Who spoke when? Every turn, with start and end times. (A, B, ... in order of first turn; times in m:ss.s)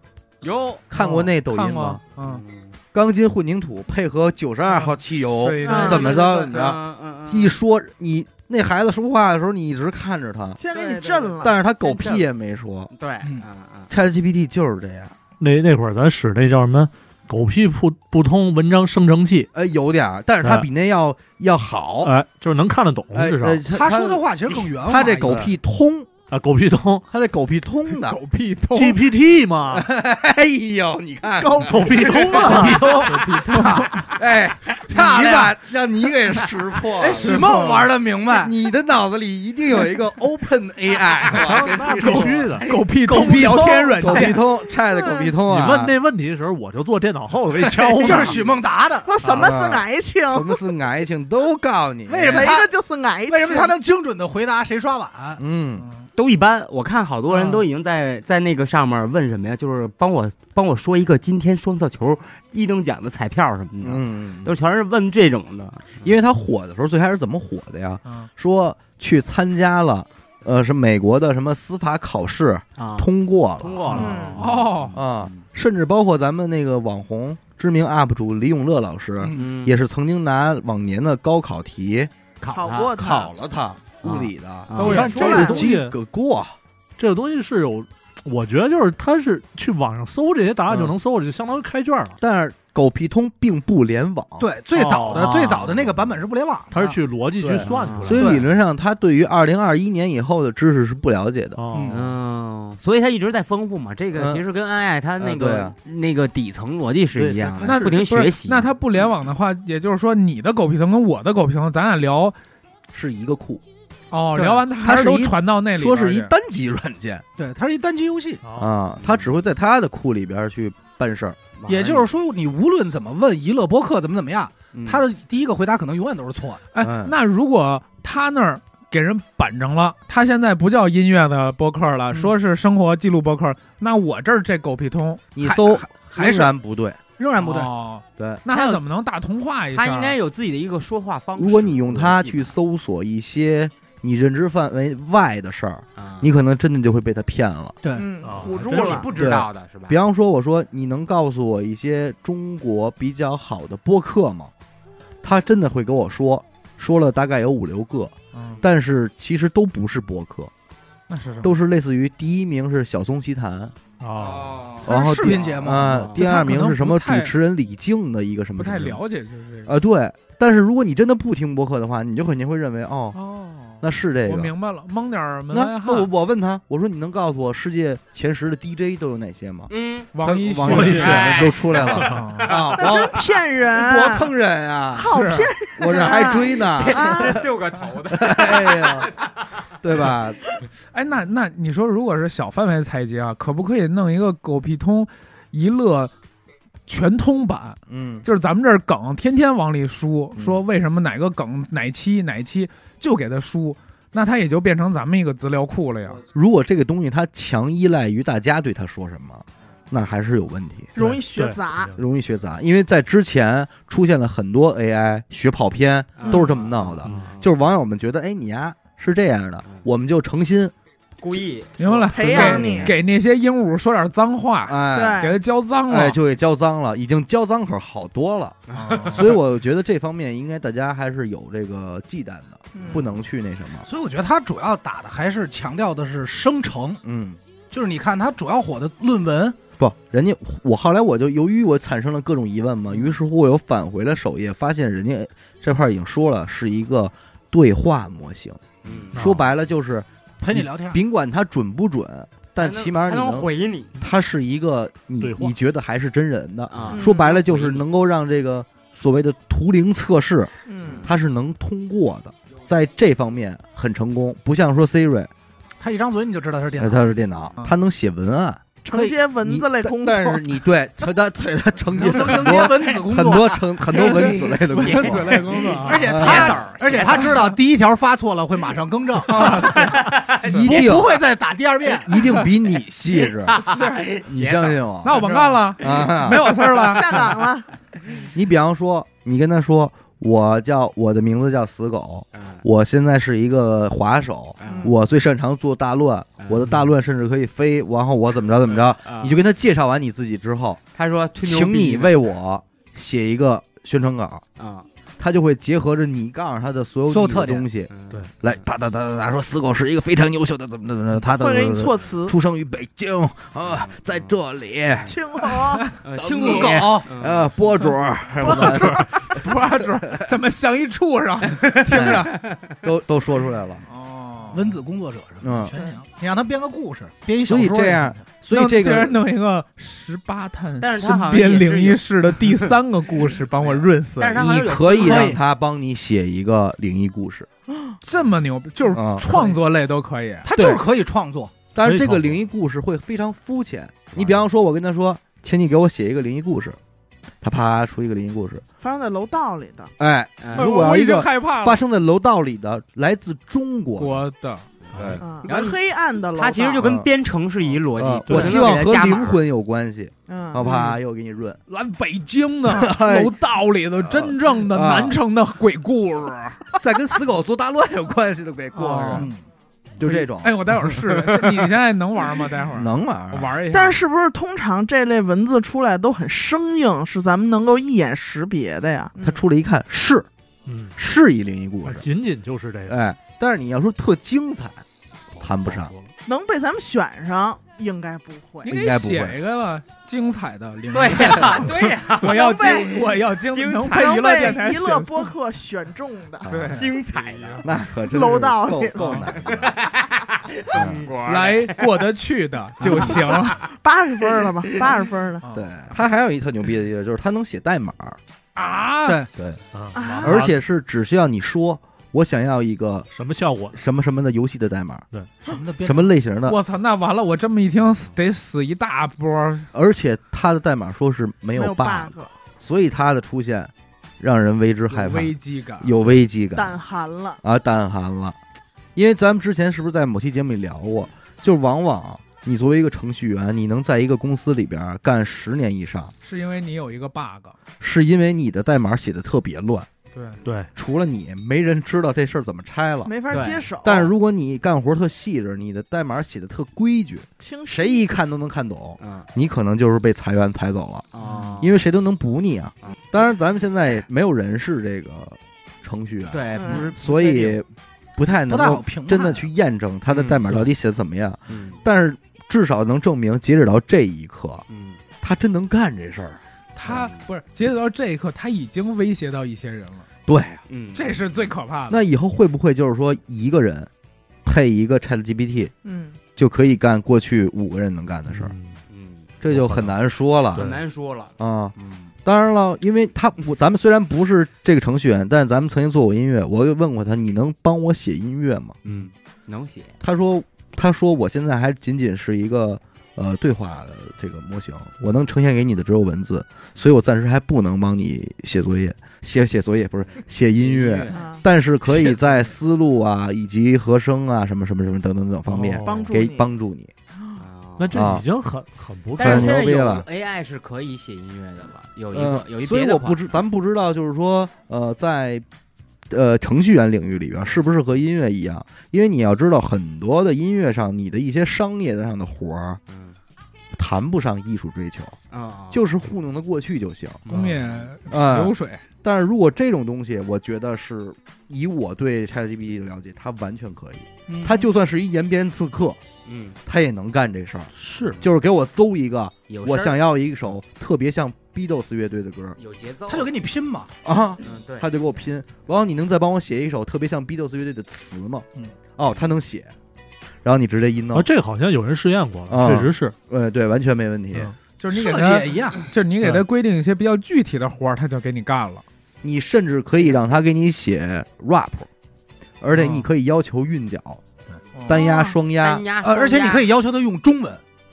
0:00.4-0:00.8 A
0:00.9-0:02.0 B
0:01.0-0:02.4 C
0:02.2-0:02.8 A
0:02.9-0:10.6 B
0:04.7-0:06.1 C
0:05.6-0:06.1 D
0:05.6-0:07.6 A
0:10.6-0:11.6 D
0:10.6-0:12.2 A
0:11.4-0:12.9 B
0:12.9-0:13.9 A
0:13.9-0:15.1 B
0:15.4-0:19.5 E
0:19.5-0:22.1 B
0:20.4-0:20.7 E
0:22.0-0:23.6 E
0:23.1-0:24.2 B
0:23.7-0:25.4 F
0:24.8-0:26.1 B
0:25.2-0:25.5 E
0:26.3-0:27.0 E
0:27.1-0:28.2 B
0:27.9-0:29.0 C
0:28.7-0:29.9 E
0:29.7-0:33.0 B
0:31.4-0:32.7 D
0:31.6-0:33.8 E
0:32.2-0:34.1 F
0:32.7-0:34.1 C
0:34.0-0:37.5 B
0:34.9-0:35.5 F
0:37.0-0:38.5 F
0:37.1-0:37.9 C
0:38.3-0:46.0 B
0:41.3-0:42.7 E
0:42.0-0:44.0 F
0:42.0-0:44.4 C
0:44.7-0:45.3 D
0:45.5-0:48.4 E
0:47.6-0:49.1 F
0:49.0-0:50.6 D
0:49.2-0:49.5 E
0:49.4-0:52.5 B
0:52.1-0:52.7 F
0:52.3-0:53.7 D
0:53.3-0:55.4 F
0:55.4-0:55.9 B
0:56.1-1:06.2 A
0:57.3-0:57.6 C
1:03.8-1:04.5 B
1:06.0-1:14.1 B
1:12.8-1:13.1 A
1:13.6-1:15.4 A
1:13.9-1:14.5 D
1:14.4-1:15.0 C
1:14.9-1:22.1 B
1:19.3-1:19.8 A
1:22.4-1:22.9 A
1:22.5-1:23.3 D
1:22.9-1:26.6 B
1:24.0-1:25.3 A
1:24.8-1:25.9 E
1:24.8-1:25.4 C
1:24.8-1:25.7 D
1:27.0-1:32.2 E
1:30.7-1:30.9 B
1:32.2-1:34.5 B
1:34.4-1:36.8 F
1:34.7-1:35.4 E
1:35.1-1:36.2 A
1:36.7-1:38.5 E
1:36.8-1:41.6 B
1:37.6-1:38.3 A
1:38.1-1:38.4 F
1:41.6-1:42.0 E
1:41.7-1:42.0 F
1:41.9-1:48.7 A
1:44.1-1:44.4 B
1:45.2-1:45.8 B
1:47.2-1:47.8 B
1:47.6-1:52.4 C
1:52.9-1:53.6 B
1:54.1-1:56.3 C
1:54.4-1:54.6 F
1:54.7-1:57.2 B
1:57.4-1:58.4 F
1:58.4-1:58.7 E
1:58.6-2:01.4 B
1:59.0-1:59.3 A
2:01.6-2:02.1 A
2:01.7-2:06.6 F
2:04.7-2:05.0 A
2:06.7-2:15.2 C
2:06.8-2:07.1 B
2:15.3-2:17.0 B
2:15.4-2:16.5 F
2:17.2-2:17.7 F
2:17.4-2:20.2 C
2:18.2-2:18.4 B
2:19.7-2:22.5 A
2:21.4-2:27.8 B
2:26.0-2:26.3 A
2:27.8-2:28.1 F
2:27.9-2:29.1 D
2:28.2-2:29.1 E
2:28.5-2:30.0 A
2:29.2-2:34.5 B
2:35.2-2:40.5 B
2:38.3-2:38.6 C
2:41.1-2:41.5 C
2:41.4-2:43.7 B
2:44.0-2:44.8 E
2:44.2-2:44.9 A
2:44.8-2:49.0 B
2:44.9-2:45.4 C
2:44.9-2:46.0 F
2:45.5-2:46.3 A
2:46.0-2:47.3 C
2:48.6-2:49.8 C
2:49.6-2:53.2 B
2:53.1-2:56.1 C
2:53.8-2:54.5 B
2:55.5-3:05.1 B
2:59.7-3:00.1 A
3:00.1-3:02.5 C
3:00.6-3:02.2 E
3:00.7-3:02.8 A
3:02.7-3:04.3 D
3:04.9-3:07.5 D
3:05.0-3:05.5 C
3:05.8-3:07.4 B
3:06.6-3:09.3 A
3:08.1-3:09.1 B
3:09.8-3:10.4 B
3:10.9-3:16.1 C
3:16.9-3:26.2 C
3:17.9-3:18.2 B
3:26.3-3:30.9 B
3:31.0-3:31.9 D
3:31.0-3:32.0 E
3:31.9-3:40.7 B
3:36.2-3:37.5 A
3:36.2-3:36.5 D
3:37.0-3:37.3 E
3:41.2-3:42.9 A
3:41.8-3:46.2 C
3:42.1-3:42.9 D
3:42.4-3:42.9 B
3:44.7-3:45.3 B
3:44.9-3:45.4 D
3:45.9-3:48.6 B
3:48.7-3:49.4 A
3:48.8-3:49.3 C
3:49.1-3:53.8 B
3:52.7-3:53.0 D
3:52.8-3:53.0 A
3:53.8-3:57.0 F
3:57.0-3:57.4 B
3:57.7-3:59.6 F
3:59.8-4:25.3 B
4:08.8-4:09.2 A
4:09.1-4:09.5 E
4:10.4-4:11.0 F
4:12.6-4:14.0 A
4:15.2-4:15.6 E
4:16.7-4:17.8 A
4:16.9-4:17.4 D
4:20.7-4:21.1 D
4:20.8-4:21.1 A
4:25.8-4:27.1 F
4:26.8-4:35.4 B
4:28.9-4:30.5 D
4:31.9-4:34.4 F
4:34.2-4:36.5 C
4:34.7-4:37.5 A
4:34.9-4:39.8 F
4:36.0-4:36.6 B
4:37.0-4:37.5 C
4:39.3-4:40.6 C
4:39.4-4:40.7 A
4:40.5-4:42.5 F
4:40.5-4:41.2 B
4:42.0-4:43.6 B
4:43.3-4:45.6 A
4:43.6-4:44.0 D
4:44.2-4:45.2 B
4:45.0-4:47.1 C
4:45.8-4:46.6 B
4:46.7-4:47.7 D
4:48.3-5:00.8 B
4:52.3-4:52.6 A
4:54.6-4:54.9 A
4:54.6-4:54.9 D
4:56.4-4:56.8 A
4:58.6-4:59.4 A
5:00.9-5:02.2 A
5:01.4-5:04.4 B
5:04.6-5:04.9 A
5:05.2-5:15.1 B
5:07.1-5:07.7 F
5:07.9-5:08.6 A
5:11.3-5:12.4 D
5:13.7-5:14.3 A
5:15.0-5:15.9 D
5:16.0-5:17.5 A
5:16.2-5:19.2 B
5:16.2-5:17.1 F
5:18.4-5:22.3 C
5:19.9-5:20.3 B
5:21.6-5:22.7 A
5:21.9-5:23.8 B
5:23.9-5:24.8 C
5:24.5-5:28.2 F
5:25.4-5:25.7 B
5:27.4-5:29.2 B
5:28.5-5:34.5 C
5:30.8-5:32.7 A
5:33.6-5:35.4 A
5:34.4-5:37.5 B
5:35.0-5:35.4 F
5:38.0-5:40.5 C
5:38.9-5:39.3 B
5:40.4-5:41.6 F
5:40.5-5:40.8 B
5:41.7-5:46.8 B
5:41.8-5:42.4 E
5:44.1-5:44.4 A
5:47.4-5:48.6 B
5:48.8-5:49.9 D
5:50.0-5:54.2 B
5:50.4-5:50.7 A
5:50.5-5:51.8 C
5:54.0-5:54.6 C
5:54.9-5:55.8 A
5:54.9-5:55.2 E
5:54.9-5:55.2 B
5:55.2-5:56.8 D
5:56.3-5:59.4 A
5:56.8-5:57.1 B
5:58.0-6:01.6 B
6:00.3-6:00.7 D
6:00.6-6:01.0 C
6:01.7-6:06.7 C
6:02.7-6:03.4 B
6:04.0-6:05.1 B
6:06.8-6:09.3 B
6:08.7-6:09.3 C
6:09.1-6:09.4 F
6:10.0-6:11.2 B
6:10.0-6:14.0 C
6:12.7-6:13.5 B
6:13.7-6:19.4 D
6:19.2-6:20.3 B
6:20.6-6:21.0 E
6:21.0-6:22.0 B
6:21.8-6:23.0 E
6:22.9-6:24.8 B
6:25.4-6:26.1 E
6:25.4-6:25.9 B
6:26.2-6:28.7 D
6:28.6-6:35.3 C
6:28.7-6:29.4 B
6:30.9-6:34.2 A
6:32.2-6:32.9 D
6:33.8-6:36.5 D
6:36.4-6:36.8 B
6:36.5-6:37.6 C
6:36.7-6:37.7 A
6:37.6-6:39.8 B
6:38.1-6:39.2 D
6:39.0-6:39.3 C
6:39.3-6:42.0 A
6:40.7-6:41.0 B
6:41.2-6:43.6 C
6:43.6-6:45.4 D
6:45.4-6:45.7 C
6:45.5-6:48.2 B
6:48.6-6:49.2 C
6:49.3-6:49.6 B
6:49.7-6:50.6 E
6:49.9-6:50.4 D
6:50.2-6:53.1 B
6:53.1-6:53.8 E
6:53.7-6:55.0 B
6:55.4-6:56.1 F
6:55.8-6:56.6 B
6:56.4-6:59.7 C
6:59.7-7:06.8 B
7:01.5-7:02.3 D
7:04.9-7:06.0 C
7:06.5-7:07.4 D
7:07.4-7:08.4 B
7:08.9-7:16.1 B
7:16.2-7:17.6 C
7:17.8-7:19.9 B
7:20.1-7:20.4 C
7:20.4-7:20.7 E
7:20.7-7:31.1 B
7:23.0-7:24.1 D
7:23.3-7:23.7 A
7:27.4-7:28.0 D
7:29.0-7:29.3 A
7:31.1-7:31.8 A
7:31.6-7:44.6 B
7:36.3-7:37.6 A
7:36.5-7:36.9 D
7:38.5-7:39.5 F
7:40.1-7:40.6 A
7:41.5-7:41.8 A
7:44.7-7:45.0 A
7:45.2-7:46.4 B
7:46.8-7:50.1 C
7:46.8-7:47.2 A
7:50.3-7:50.6 B
7:50.7-7:51.1 A
7:50.9-7:52.0 C
7:51.9-7:53.9 B
7:54.4-7:55.7 B
7:55.8-7:56.2 D
7:56.4-7:58.5 B
7:58.3-7:58.8 E
7:58.9-7:59.4 A
7:59.4-8:00.7 B
7:59.5-7:59.9 E
8:00.5-8:02.1 A
8:00.5-8:00.8 E
8:01.4-8:01.7 B
8:02.2-8:08.8 B
8:08.8-8:10.0 A
8:10.0-8:26.9 B
8:20.5-8:21.4 A
8:21.1-8:21.4 D
8:25.5-8:26.1 E
8:25.8-8:26.5 D
8:27.4-8:28.1 A
8:27.8-8:29.6 E
8:27.9-8:28.3 B
8:29.2-8:33.2 A
8:29.2-8:30.0 B
8:32.1-8:35.4 B
8:36.1-8:42.8 B
8:42.9-8:43.2 A
8:43.7-8:45.2 B
8:45.3-8:45.8 A
8:45.7-8:47.2 B
8:47.2-8:47.9 A
8:47.3-8:48.8 C
8:48.1-8:56.0 B
8:54.3-8:54.6 F
8:56.2-8:56.6 A
8:56.6-9:02.6 B
8:57.8-8:58.2 E
8:59.5-9:00.0 A
9:02.6-9:03.4 A
9:03.1-9:03.9 F
9:04.0-9:09.7 B
9:04.4-9:04.9 A
9:10.4-9:11.3 B
9:11.1-9:13.1 E
9:12.5-9:14.5 B
9:14.8-9:18.8 C
9:14.9-9:15.9 F
9:19.2-9:21.9 B
9:22.6-9:24.2 B
9:24.7-9:25.0 C
9:24.8-9:25.8 B
9:24.9-9:25.4 D
9:25.5-9:26.7 A
9:26.0-9:27.6 F